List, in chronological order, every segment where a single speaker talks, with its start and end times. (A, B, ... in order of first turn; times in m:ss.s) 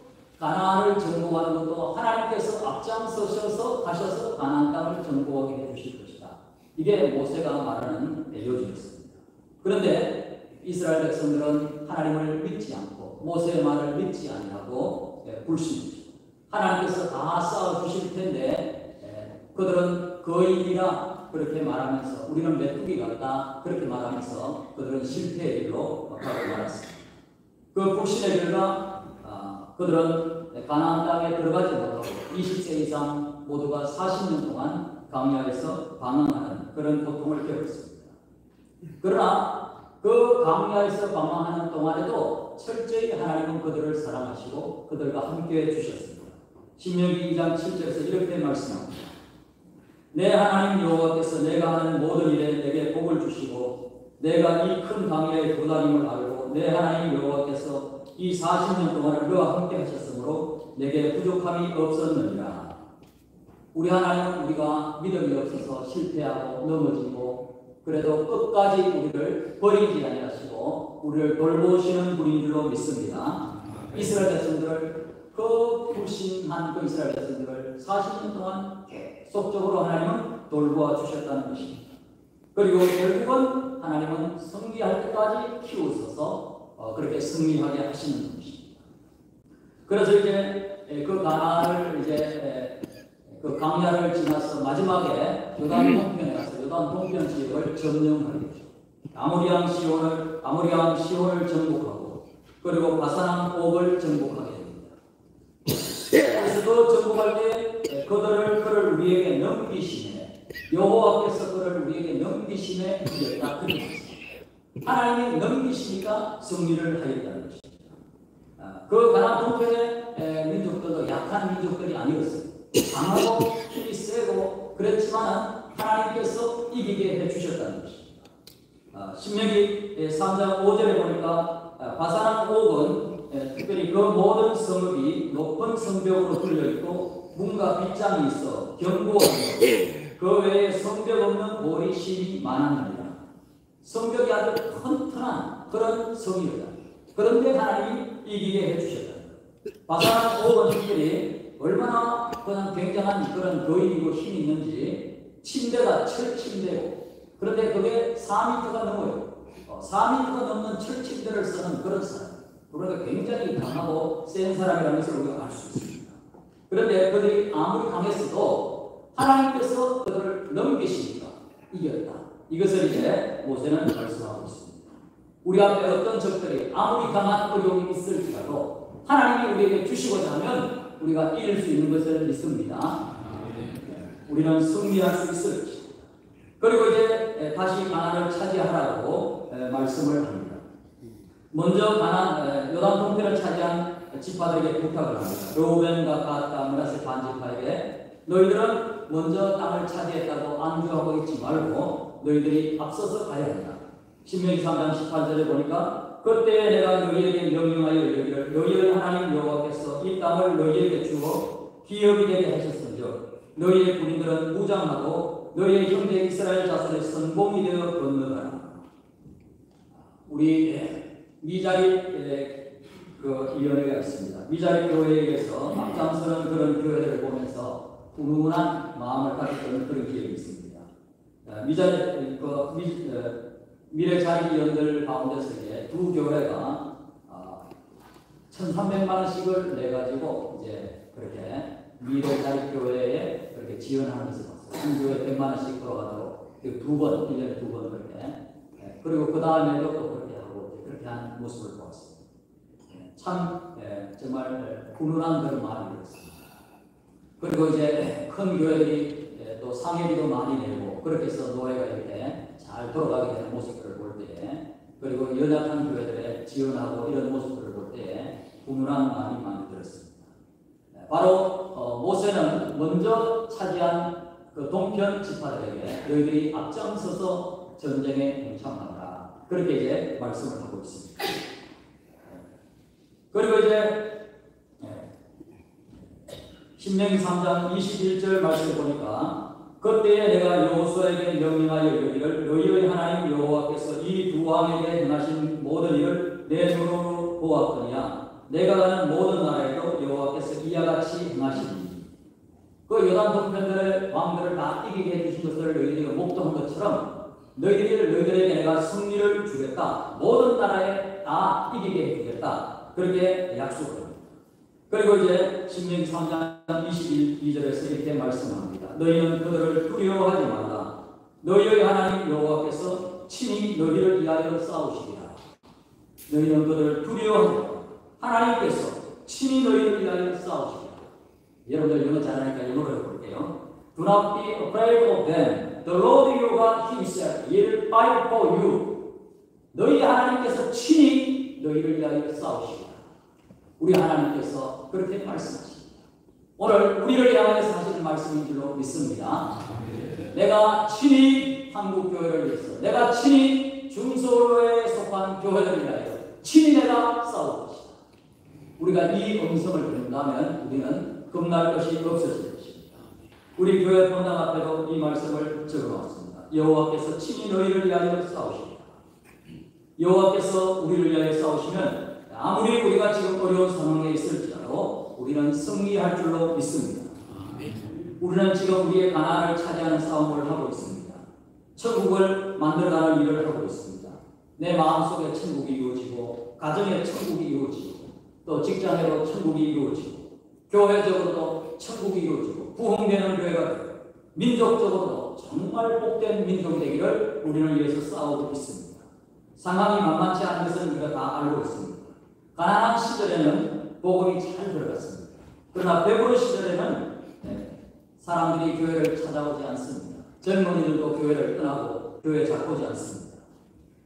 0:00.4-0:26.9 A
0:27.7-0:38.2 A
0:39.0-0:49.1 A
0:50.1-1:02.8 A
1:03.7-1:22.0 A
1:22.5-1:28.8 A
1:29.9-1:44.9 A
1:46.2-1:54.2 A
1:54.8-1:57.9 A
1:58.6-2:08.2 A
2:08.9-2:23.2 A
2:23.8-2:46.2 A
2:46.7-2:54.9 A
2:55.4-3:03.0 A
3:03.8-3:06.0 A
3:06.6-3:10.6 A
3:11.5-3:38.8 A
3:40.2-3:42.6 A
3:43.2-3:50.9 A
3:51.4-3:53.4 A
3:53.9-3:57.7 A
3:58.5-4:12.2 A
4:12.9-4:16.4 A
4:17.4-4:30.3 A
4:30.9-4:41.3 A
4:43.3-4:44.1 A
4:44.8-4:45.1 A
4:46.8-5:02.1 A
5:02.9-5:14.3 A
5:14.9-5:25.4 A
5:26.3-5:31.1 A
5:31.6-5:39.0 A
5:39.7-5:43.0 A
5:43.8-5:46.0 A
5:46.6-5:49.5 A
5:50.3-5:58.0 A
5:58.8-6:03.0 A
6:03.6-6:09.0 A
6:10.0-6:17.2 A
6:18.2-6:21.2 A
6:21.8-6:53.4 A